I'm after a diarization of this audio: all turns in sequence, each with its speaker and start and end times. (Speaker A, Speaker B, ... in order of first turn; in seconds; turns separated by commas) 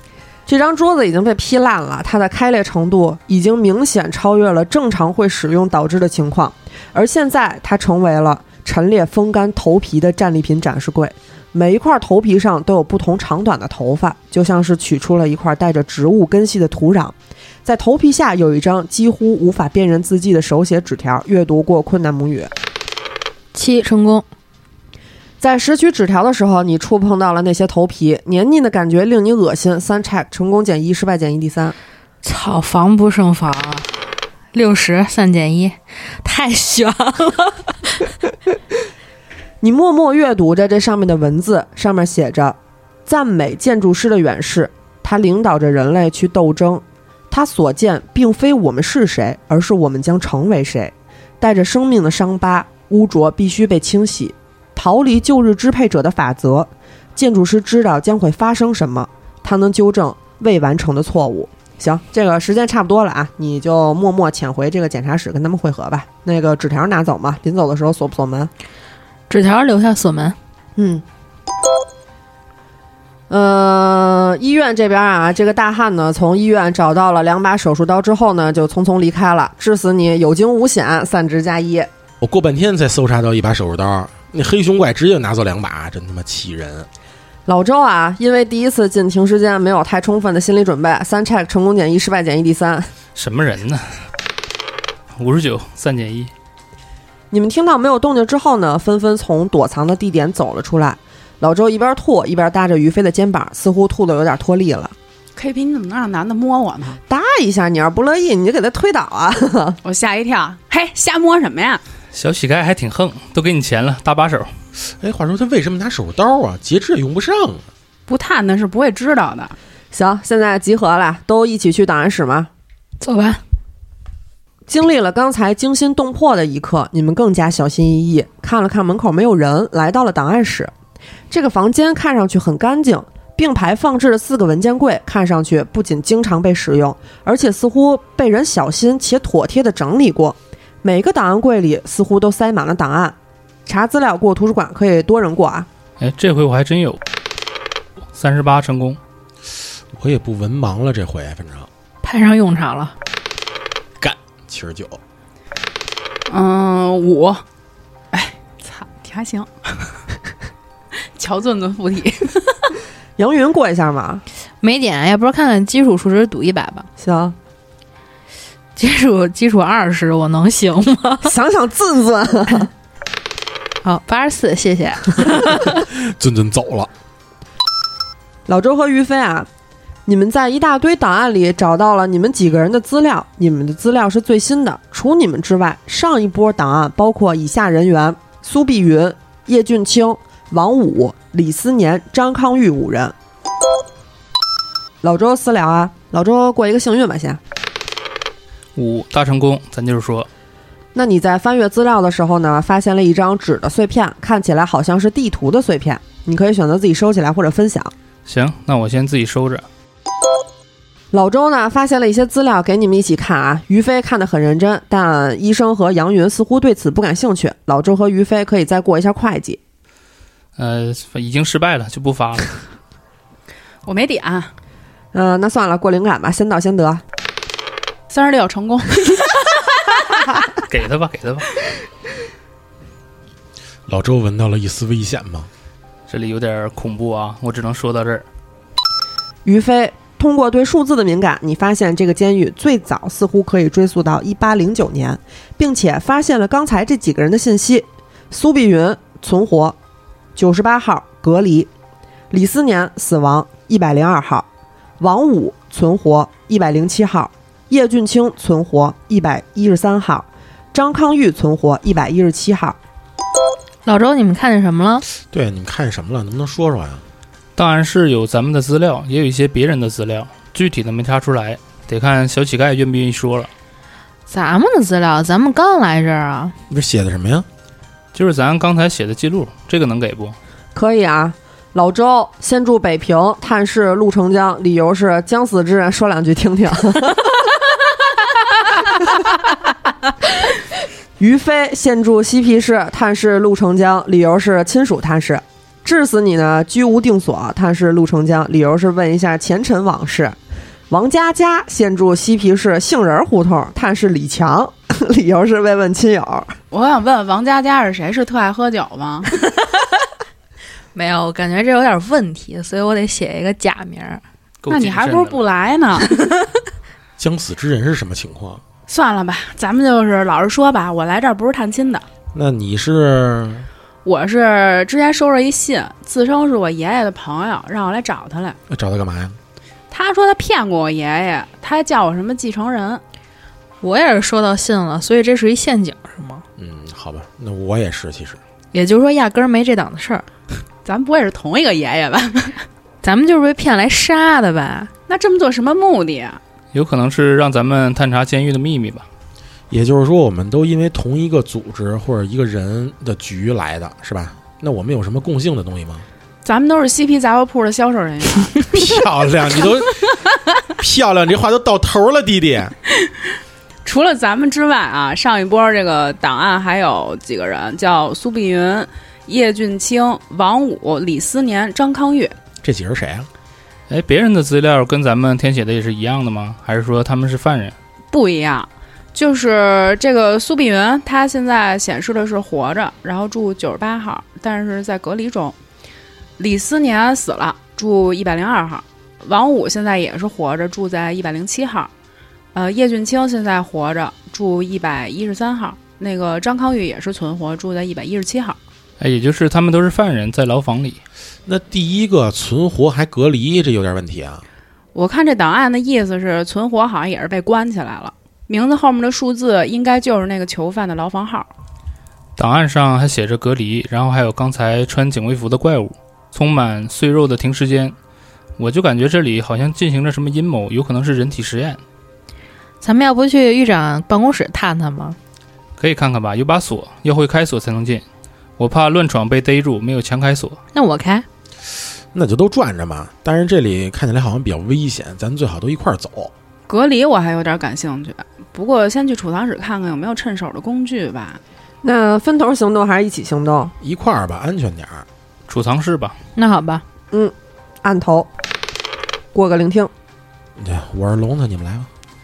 Speaker A: 0.5-22.5, Speaker B: 23.5-24.2, Speaker A: 25.4-31.8, Speaker B: 32.2-38.1, Speaker A: 39.6-68.5, Speaker B: 69.3-70.4, Speaker A: 70.8-71.0, Speaker A: 73.3-81.9, Speaker C: 82.2-86.9, Speaker A: 87.5-92.9, Speaker D: 93.2-94.0, Speaker D: 95.2-96.3, Speaker A: 97.3-104.9, Speaker E: 105.3-107.0, Speaker A: 107.1-109.8, Speaker E: 109.8-111.8, Speaker D: 112.1-114.5, Speaker C: 114.9-117.7, Speaker E: 118.1-119.5, Speaker A: 119.9-122.5, Speaker B: 123.0-123.4, Speaker A: 124.7-130.7, Speaker A: 131.3-145.7, Speaker D: 146.0-147.0, Speaker D: 148.1-149.0, Speaker C: 149.9-151.7, Speaker B: 152.0-152.9, Speaker C: 154.0-155.0, Speaker E: 156.3-157.4, Speaker E: 158.1-160.0, Speaker E: 161.0-162.7, Speaker A: 163.2-164.2, Speaker B: 164.6-166.9, Speaker A: 167.0-167.4, Speaker B: 168.8-171.3, Speaker A: 171.2-172.7, Speaker B: 173.8-175.8, Speaker C: 175.7-176.9, Speaker A: 178.5-179.5, Speaker A: 180.1-193.1, Speaker A: 195.0-197.4, Speaker D: 198.8-200.3, Speaker A: 200.9-207.9, Speaker D: 208.3-209.7, Speaker A: 211.1-219.6, Speaker D: 220.6-222.6, Speaker E: 223.8-224.5, Speaker A: 225.1-227.0, Speaker E: 228.1-229.6, Speaker D: 230.6-231.5, Speaker C: 233.9-235.5, Speaker D: 236.1-238.2, Speaker A: 239.4-249.8, Speaker A: 250.4-251.7, Speaker A: 252.3-254.5, Speaker A: 255.0-262.8, Speaker B: 263.9-265.0, Speaker C: 265.2-267.0, Speaker D: 267.6-273.5, Speaker B: 274.3-276.6, Speaker C: 276.7-277.5, Speaker D: 278.1-280.4, Speaker A: 280.8-287.4, Speaker A: 291.2-300.4, Speaker A: 300.9-306.6, Speaker E: 306.7-309.3, Speaker B: 310.9-314.2, Speaker D: 314.6-315.4, Speaker E: 314.7-316.2, Speaker C: 317.2-318.6, Speaker E: 318.9-322.1, Speaker C: 322.3-323.7, Speaker E: 324.1-328.6, Speaker C: 328.7-329.4, Speaker E: 329.9-333.0, Speaker B: 333.8-336.4, Speaker C: 336.6-338.4, Speaker B: 338.7-340.2, Speaker E: 340.9-342.6, Speaker B: 343.0-344.9, Speaker E: 345.1-346.4, Speaker D: 346.7-349.1, Speaker C: 349.7-356.1, Speaker E: 356.4-358.7, Speaker C: 358.7-360.1, Speaker C: 360.8-362.8, Speaker E: 363.0-363.3, Speaker E: 363.9-372.4, Speaker C: 372.6-373.3, Speaker D: 373.9-377.8, Speaker E: 378.1-385.6, Speaker E: 386.4-391.9, Speaker E: 392.5-398.6, Speaker D: 399.0-401.0, Speaker C: 401.5-404.4, Speaker E: 404.9-411.5, Speaker D: 412.4-417.9, Speaker D: 418.6-421.8, Speaker B: 422.8-425.2, Speaker D: 425.8-428.0, Speaker D: 428.6-430.6, Speaker B: 430.7-431.3, Speaker C: 432.1-436.3, Speaker E: 436.7-441.4, Speaker A: 441.8-443.7, Speaker C: 443.8-445.1, Speaker D: 445.5-446.2, Speaker B: 446.4-446.8, Speaker A: 447.1-448.3, Speaker A: 449.3-449.9, Speaker C: 450.6-451.9